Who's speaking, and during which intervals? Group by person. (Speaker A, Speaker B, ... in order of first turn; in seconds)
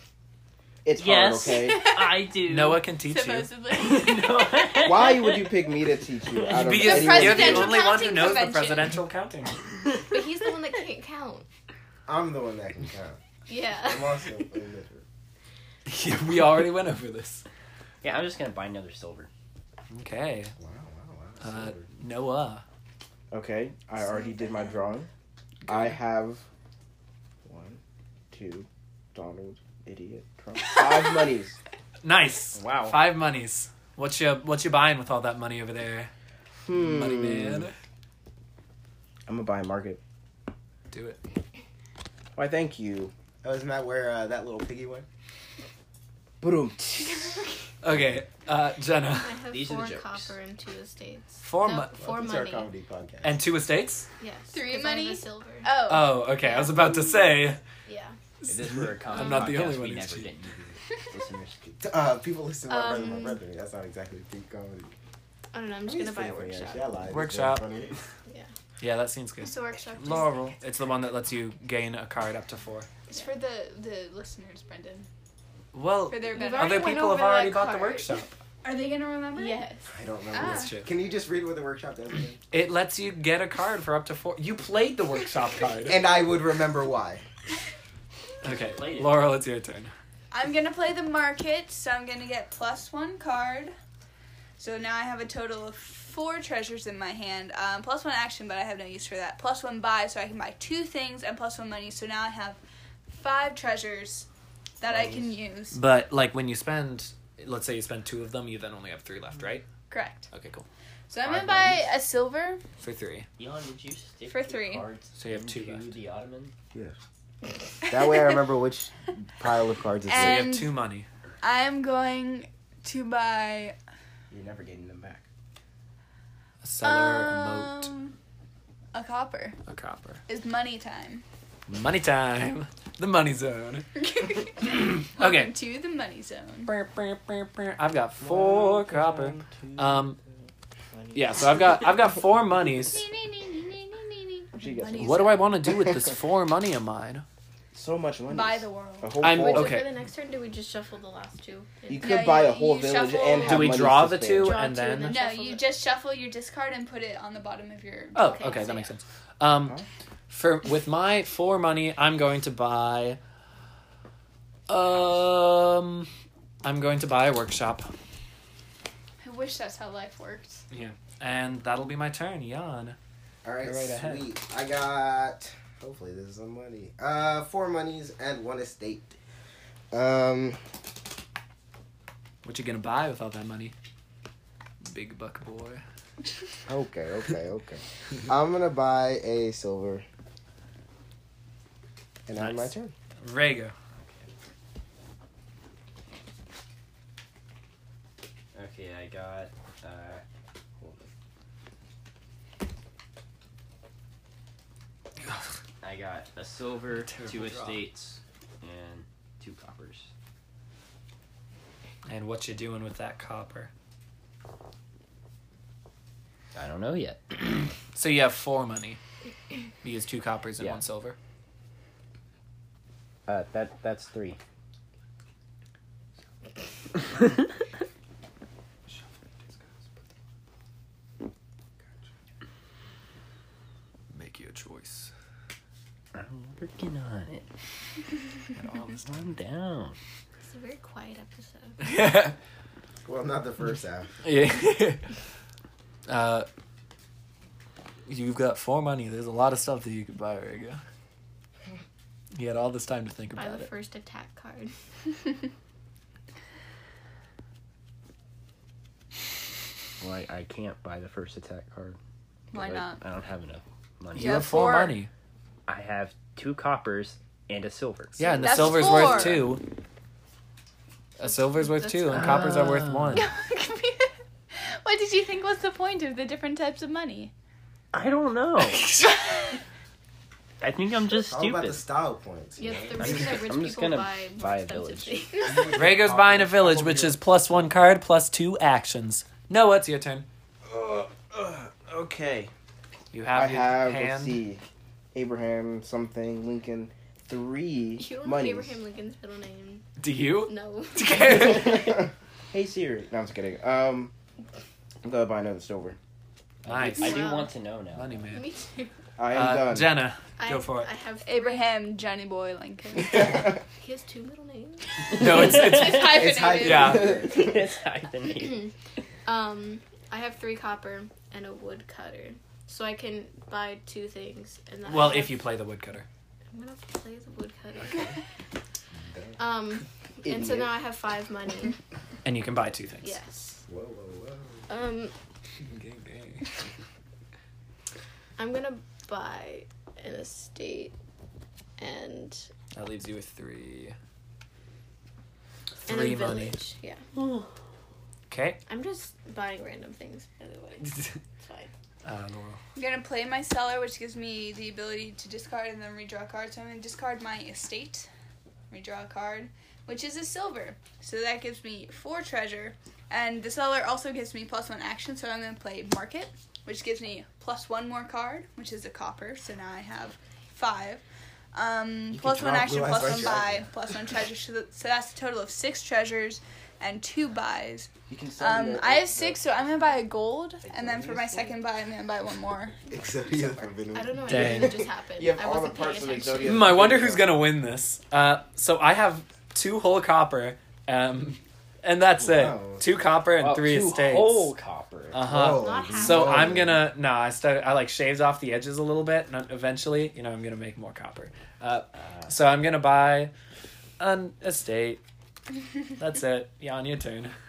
Speaker A: 0.8-2.0, 4.8-7.7, 23.3-25.1, 25.7-26.4, 27.4-27.8, 28.3-31.6, 36.6-37.6, 39.3-40.0, 42.4-43.1, 46.4-47.3, 124.3-125.3, 138.2-140.1, 140.9-141.8, 144.6-145.3, 147.7-149.9, 151.9-154.6, 285.6-287.1, 290.7-292.5, 293.3-294.6, 295.1-298.8, 301.3-304.1, 305.0-306.0, 309.2-310.0, 330.3-330.7, 372.6-373.6, 378.1-379.8, 380.6-381.6, 385.2-387.4
Speaker B: 1.0-2.9, 3.7-5.6, 6.4-6.7, 18.0-19.3, 32.5-33.0, 49.5-50.4, 58.5-61.8, 88.4-89.2, 113.4-116.5, 194.0-194.3, 198.5-200.2, 205.8-210.1, 216.6-217.7, 223.3-224.4, 236.1-237.5, 239.1-240.0, 260.0-262.0, 262.5-264.7, 265.7-269.4, 272.1-273.2, 277.9-278.9, 280.6-281.8, 283.0-285.4, 306.7-308.2, 315.1-316.3, 317.1-318.7, 347.2-347.5, 393.4-395.2, 402.0-402.3
Speaker C: 2.5-3.5, 6.5-9.6, 15.9-17.4, 19.9-20.5, 21.4-22.6, 25.7-26.0, 32.0-36.1, 36.7-37.7, 40.9-41.2, 47.8-49.4, 51.4-51.9, 53.2-54.1, 55.9-57.6, 58.4-60.3, 67.1-67.7, 68.8-72.9, 75.7-78.3, 80.3-80.9, 82.5-86.0, 88.4-89.9, 105.7-109.7, 110.3-110.7, 111.2-111.8, 112.8-113.3, 115.2-115.9, 120.1-121.1, 126.6-127.9, 129.7-130.2, 131.7-133.9, 134.6-135.5, 136.7-140.2, 141.1-143.0, 145.0-147.2, 149.2-149.9, 153.4-155.2, 158.2-159.8, 160.3-163.2, 164.7-166.1, 166.6-167.9, 170.7-173.0, 173.6-174.3, 182.4-183.7, 184.8-185.8, 192.4-193.7, 207.0-207.8, 212.1-213.7, 217.9-219.0, 219.8-221.2, 234.1-235.1, 238.6-239.3, 241.8-242.3, 244.2-245.1, 246.1-246.5, 248.1-250.8, 252.3-253.7, 264.1-265.1, 268.2-269.6, 271.2-273.3, 278.7-279.4, 285.7-290.3, 293.1-294.4, 300.0-302.0, 306.6-307.4, 308.0-308.5, 309.3-310.9, 315.1-317.2, 324.9-326.1, 332.2-333.2, 335.6-336.5, 342.7-344.0, 345.9-346.6, 348.3-348.6, 350.8-351.1, 352.1-352.6, 384.3-384.8, 386.4-394.5, 395.1-403.3, 404.0-405.0, 406.0-407.3
Speaker D: 3.0-4.3, 6.8-9.0, 54.5-56.2, 59.2-59.5, 69.4-70.5, 73.1-75.1, 76.1-77.1, 78.6-79.7, 80.3-80.7, 90.3-93.7, 94.6-104.3, 104.8-105.8, 109.9-110.3, 111.1-112.6, 114.3-114.9, 117.9-118.3, 120.1-120.8, 121.4-123.8, 126.8-128.2, 128.9-129.6, 130.3-131.2, 134.0-136.7, 142.9-145.5, 148.3-149.2, 152.0-153.9, 155.0-158.8, 169.2-170.6, 262.5-263.0, 264.1-265.0, 268.4-269.4, 273.1-277.3, 311.2-313.5, 315.3-317.1, 352.8-358.1, 358.7-371.0, 371.5-382.8
Speaker E: 10.1-11.5, 13.5-14.4, 49.1-52.7, 54.2-56.9, 57.9-58.2, 62.7-63.4, 65.5-66.9, 76.3-78.2, 79.3-79.9, 149.3-152.3, 154.3-155.7, 158.2-158.9, 240.4-241.8, 253.3-254.7, 282.6-285.8, 298.0-299.9, 300.4-301.9, 306.8-307.5, 308.3-308.9, 310.4-311.8, 313.5-315.2, 318.3-318.7, 319.2-325.5, 326.5-328.1, 329.4-331.8, 333.0-333.6, 334.7-335.1, 338.4-340.9, 341.8-342.5, 345.9-347.0, 348.7-351.7, 383.9-386.8, 395.5-396.7
Speaker F: 12.1-13.2, 13.7-15.0, 20.6-21.9, 43.4-45.1, 52.0-53.5, 61.8-64.9, 65.9-68.0, 79.9-82.4, 85.9-87.2, 117.9-120.5, 173.4-179.2, 179.9-180.6, 186.7-190.1, 192.3-192.9, 243.0-244.2, 281.2-283.2, 285.6-286.9, 316.1-317.5, 329.1-329.4, 333.7-334.7, 372.1-373.7, 382.9-384.8, 392.2-392.9, 395.1-396.8